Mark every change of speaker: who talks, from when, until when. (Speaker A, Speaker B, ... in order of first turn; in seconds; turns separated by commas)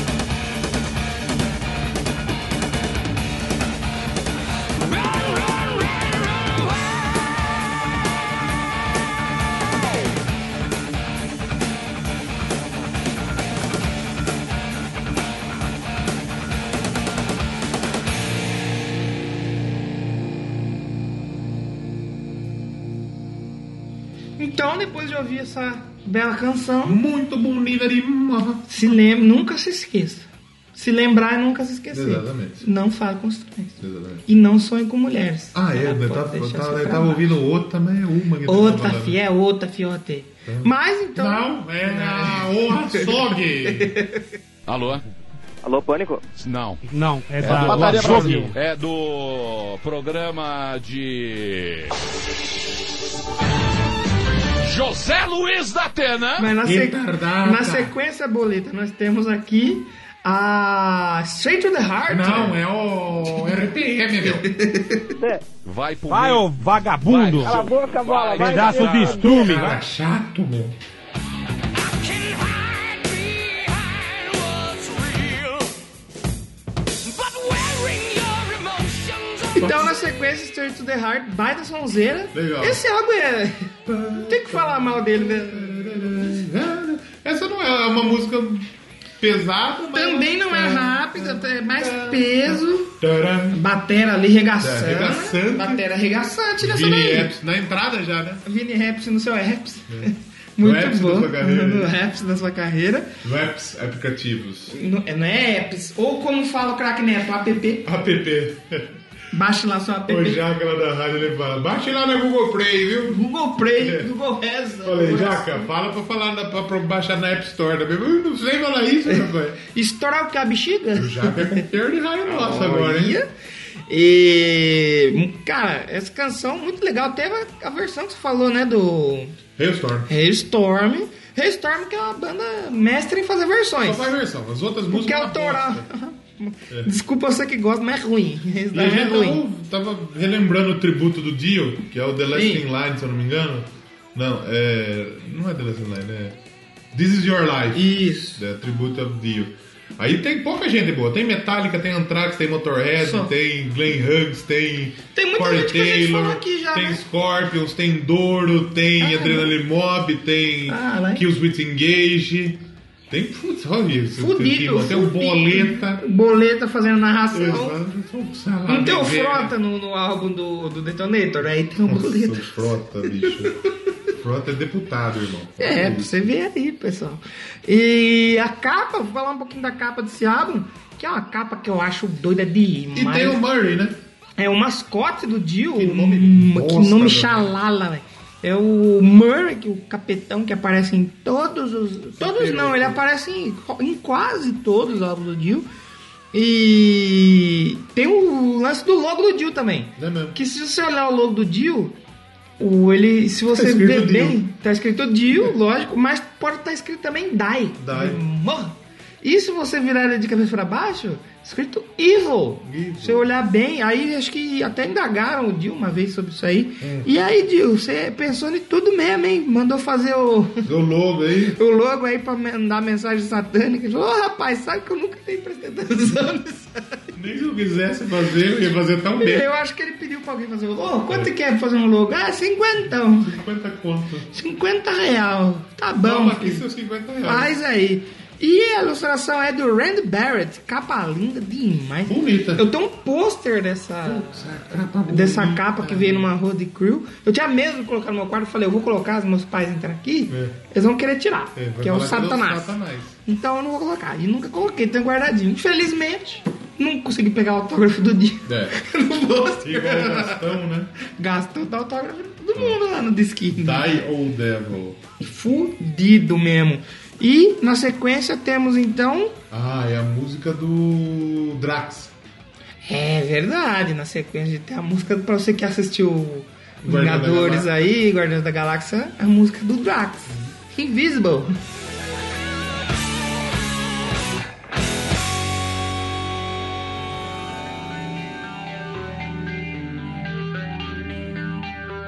Speaker A: 4.8-7.7, Speaker B: 24.4-27.0, Speaker C: 26.8-28.7, Speaker B: 28.7-37.4, Speaker C: 31.9-32.7, Speaker C: 33.8-34.3, Speaker C: 35.5-39.2, Speaker B: 38.5-44.3, Speaker C: 40.5-44.0, Speaker D: 44.7-45.0, Speaker E: 45.6-46.2, Speaker D: 46.4-46.8, Speaker F: 46.9-48.5, Speaker D: 47.4-51.9, Speaker C: 47.4-48.0, Speaker E: 47.5-48.5, Speaker D: 54.6-56.5, Speaker B: 56.4-62.6, Speaker C: 56.6-57.9, Speaker C: 62.1-64.5, Speaker B: 64.2-65.1, Speaker D: 65.6-69.4, Speaker F: 66.1-67.7, Speaker E: 67.4-69.7, Speaker F: 68.4-69.8, Speaker C: 69.2-70.8, Speaker A: 71.7-75.7, Speaker A: 77.0-79.9, Speaker B: 79.6-86.2, Speaker C: 82.3-82.8, Speaker C: 83.9-93.6, Speaker B: 89.9-93.0, Speaker B: 93.5-97.3, Speaker C: 94.6-95.8, Speaker C: 96.6-98.4, Speaker B: 98.5-103.2, Speaker C: 99.9-101.9, Speaker C: 103.2-104.8, Speaker B: 104.7-107.9, Speaker C: 107.8-109.0, Speaker B: 109.3-110.4, Speaker C: 110.1-114.1, Speaker B: 113.1-115.7, Speaker C: 114.8-119.6, Speaker B: 119.1-121.7, Speaker C: 121.0-123.2, Speaker B: 122.2-123.3, Speaker B: 123.9-129.4, Speaker C: 129.6-130.1, Speaker B: 130.1-134.1, Speaker C: 133.8-135.9, Speaker B: 134.9-139.4, Speaker C: 138.7-146.4, Speaker B: 142.3-142.6, Speaker C: 146.9-166.0, Speaker B: 147.7-148.4, Speaker B: 153.0-153.3, Speaker B: 155.1-157.0, Speaker B: 159.0-159.5, Speaker B: 160.7-161.2, Speaker B: 164.2-167.8, Speaker C: 167.3-169.5, Speaker B: 168.7-173.5, Speaker C: 171.8-173.6, Speaker C: 174.1-176.3, Speaker B: 175.6-183.4, Speaker C: 182.9-184.0, Speaker B: 184.4-195.7, Speaker C: 185.7-187.5, Speaker C: 192.2-193.0, Speaker B: 196.3-201.9, Speaker C: 200.0-200.4, Speaker B: 202.6-220.7, Speaker C: 203.5-204.4, Speaker C: 207.8-208.2, Speaker C: 212.6-213.3, Speaker C: 216.8-217.1, Speaker C: 220.6-221.6, Speaker B: 221.5-227.1, Speaker C: 227.1-229.5, Speaker B: 229.2-233.4, Speaker C: 232.8-234.3, Speaker B: 234.3-236.7, Speaker C: 236.0-237.6, Speaker B: 237.2-264.0, Speaker C: 242.1-242.7, Speaker C: 244.0-246.3, Speaker C: 250.3-250.6, Speaker C: 251.6-253.2, Speaker C: 258.4-258.8, Speaker C: 259.6-260.9, Speaker C: 262.6-262.8, Speaker C: 263.5-265.0, Speaker B: 265.2-269.4, Speaker C: 269.5-272.1, Speaker B: 272.8-281.6, Speaker C: 276.8-277.8